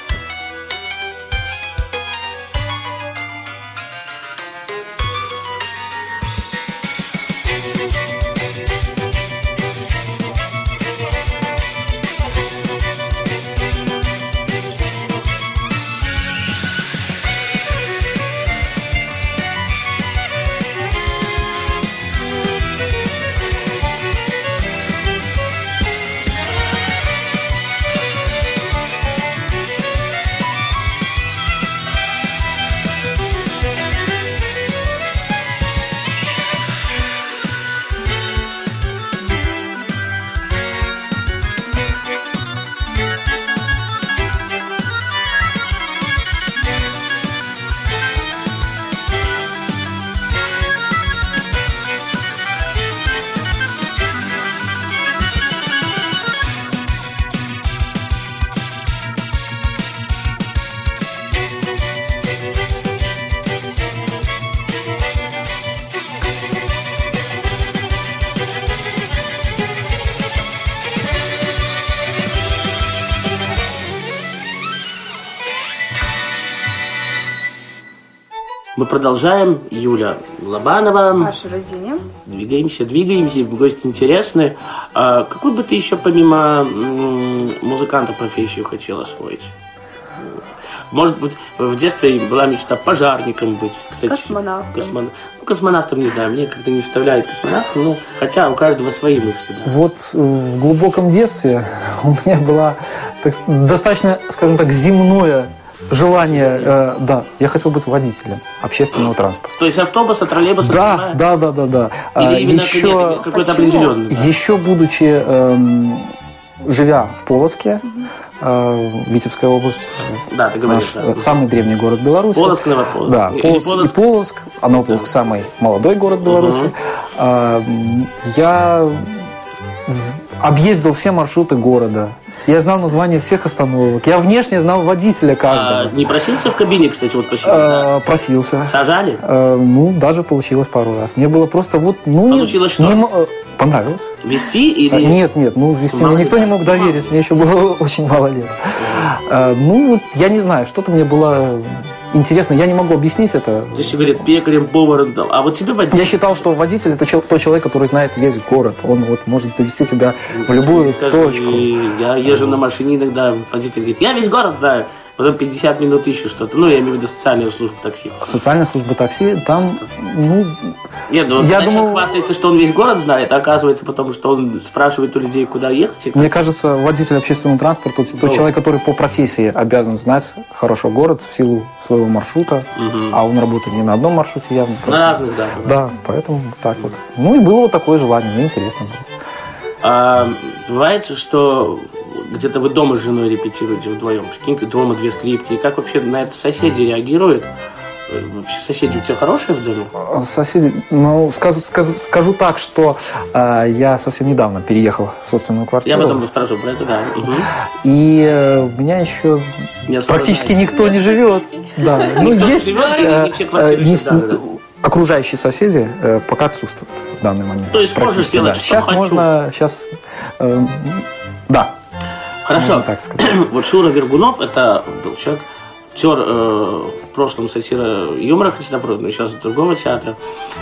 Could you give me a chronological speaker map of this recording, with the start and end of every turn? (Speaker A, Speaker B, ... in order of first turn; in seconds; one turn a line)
Speaker A: 78.8-81.3
Speaker B: 81.2-82.0
Speaker A: 82.2-89.5
Speaker A: 90.9-99.8
Speaker B: 94.0-94.9
Speaker C: 99.7-109.6
Speaker A: 106.2-106.7
Speaker A: 109.6-111.2
Speaker C: 110.6-113.3
Speaker A: 112.2-114.4
Speaker B: 113.3-114.0
Speaker C: 114.1-117.8
Speaker C: 118.4-129.3
Speaker A: 120.3-121.4
Speaker A: 122.3-124.0
Speaker A: 126.2-126.7
Speaker C: 129.8-136.0
Speaker A: 135.5-137.9
Speaker C: 137.4-144.2
Speaker A: 138.7-139.2
Speaker A: 142.3-143.0
Speaker A: 144.2-145.2
Speaker C: 144.9-154.1
Speaker A: 145.9-147.1
Speaker A: 148.8-149.1
Speaker A: 153.7-156.3
Speaker C: 155.9-162.6
Speaker A: 160.3-168.3
Speaker C: 168.2-170.8
Speaker A: 171.1-176.3
Speaker C: 171.3-172.1
Speaker C: 176.1-189.1
Speaker A: 182.8-183.2
Speaker A: 184.8-185.8
Speaker A: 189.8-197.5
Speaker A: 198.1-199.9
Speaker C: 199.9-206.2
Speaker A: 205.8-207.5
Speaker C: 207.6-221.8
Speaker A: 209.9-210.7
Speaker A: 211.8-214.4
Speaker A: 217.7-219.2
Speaker A: 222.4-230.2
Speaker C: 222.5-223.4